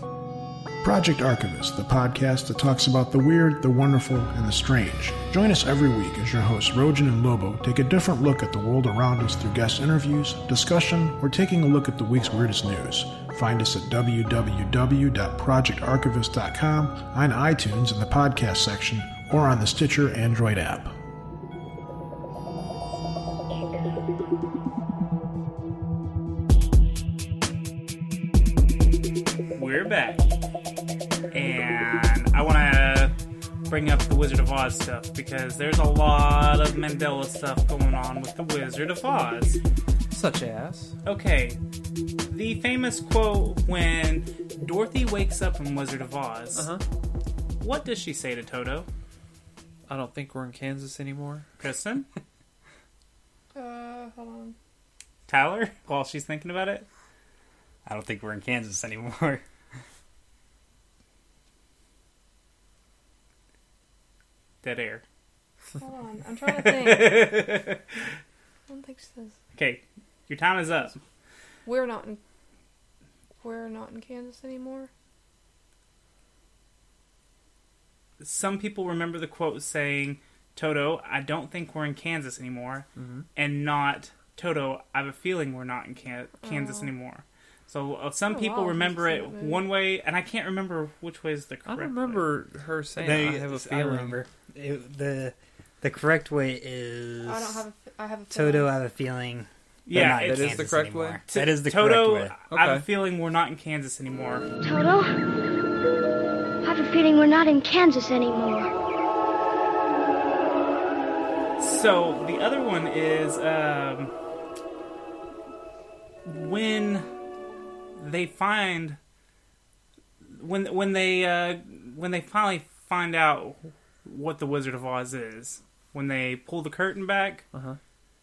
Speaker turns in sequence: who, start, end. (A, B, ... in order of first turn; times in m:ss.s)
0:00.8-0:20.9 A
0:29.6-0:30.2 B
0:31.3-0:33.1 B
0:33.7-0:39.6 B
0:40.1-0:41.0 C
0:41.0-0:41.6 B
0:42.3-0:46.7 B
0:46.6-0:46.8 C
0:47.6-0:48.9 B
0:49.9-0:51.5 C
0:51.6-0:52.1 B
0:53.6-0:54.6 D
0:55.3-0:56.9 B
0:57.9-0:59.4 E
1:04.6-1:05.0 B
1:05.8-1:07.3 D
1:06.5-1:08.0 B
1:08.7-1:09.4 D
1:09.6-1:11.0 B
1:11.7-1:12.2 D
1:13.4-1:14.9 D
1:18.2-1:32.2 B
1:23.0-1:23.3 C
1:26.4-1:26.9 D
1:28.3-1:29.6 D
1:31.7-1:34.2 C
1:33.0-1:37.6 E
1:37.2-1:38.7 D
1:38.3-1:42.4 E
1:39.9-1:40.7 B
1:40.0-1:41.2 C
1:41.3-1:44.5 B
1:42.5-1:42.8 C
1:44.6-1:45.2 F
1:46.6-1:48.7 F
1:51.6-1:54.1 B
1:56.3-1:57.1 B
1:58.0-1:59.0 B
2:00.3-2:07.4 B
2:07.5-2:07.8 C